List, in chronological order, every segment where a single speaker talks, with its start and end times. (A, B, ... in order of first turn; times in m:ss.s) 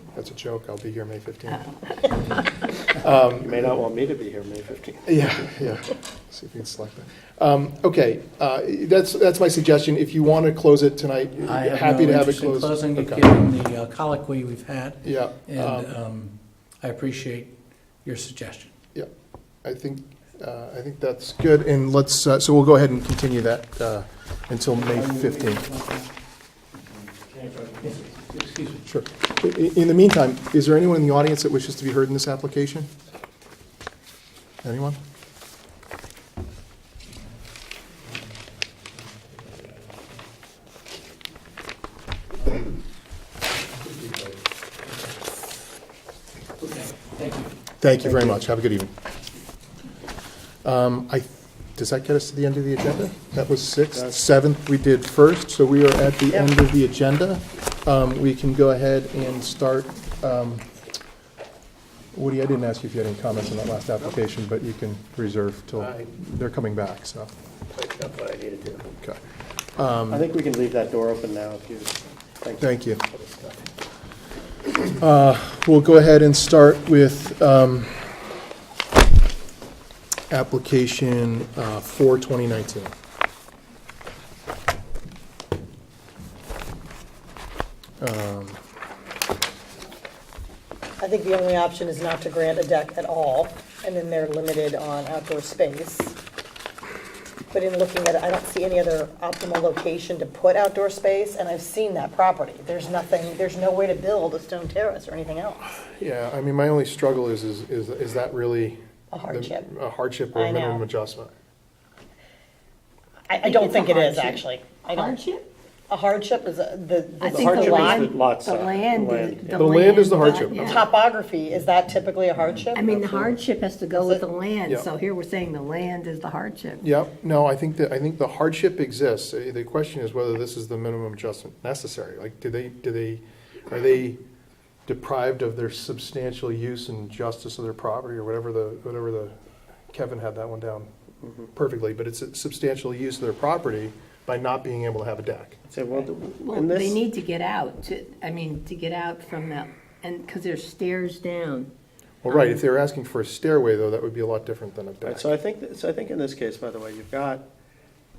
0:00.1-0:03.6 A
0:03.4-0:05.3 B
0:05.0-0:13.3 A
0:11.4-0:17.5 C
0:15.0-0:15.9 A
0:18.0-0:18.7 C
0:19.6-0:25.6 A
0:24.7-0:26.1 C
0:27.8-0:28.8 C
0:28.9-0:32.9 A
0:34.6-0:35.0 A
0:46.6-0:47.5 C
0:47.8-0:48.9 A
0:50.6-1:00.7 A
0:53.9-0:54.2 B
1:02.1-1:07.3 A
1:05.8-1:06.0 D
1:07.7-1:08.8 D
1:09.8-1:10.3 A
1:10.1-1:12.6 B
1:12.6-1:13.0 A
1:13.1-1:13.7 D
1:14.9-1:18.1 A
1:20.3-1:22.9 A
1:28.0-1:28.6 A
1:31.0-1:36.1 E
1:37.5-1:45.8 E
1:46.0-1:51.3 A
1:49.1-1:49.6 E
1:50.3-1:50.8 E
1:53.3-1:55.2 E
1:53.4-1:55.4 F
1:55.9-1:58.1 E
1:57.2-2:00.9 F
1:57.4-1:59.5 B
1:59.5-2:00.7 A
2:00.5-2:03.0 E
2:02.7-2:06.8 F
2:03.9-2:04.2 E
2:06.8-2:14.2 A
2:14.8-2:19.3 A
2:19.9-2:20.9 A
2:21.5-2:25.6 A
2:25.7-2:27.0 B
2:26.4-2:31.7 F
2:32.2-2:35.3 A
2:32.3-2:32.6 F
2:35.0-2:37.4 B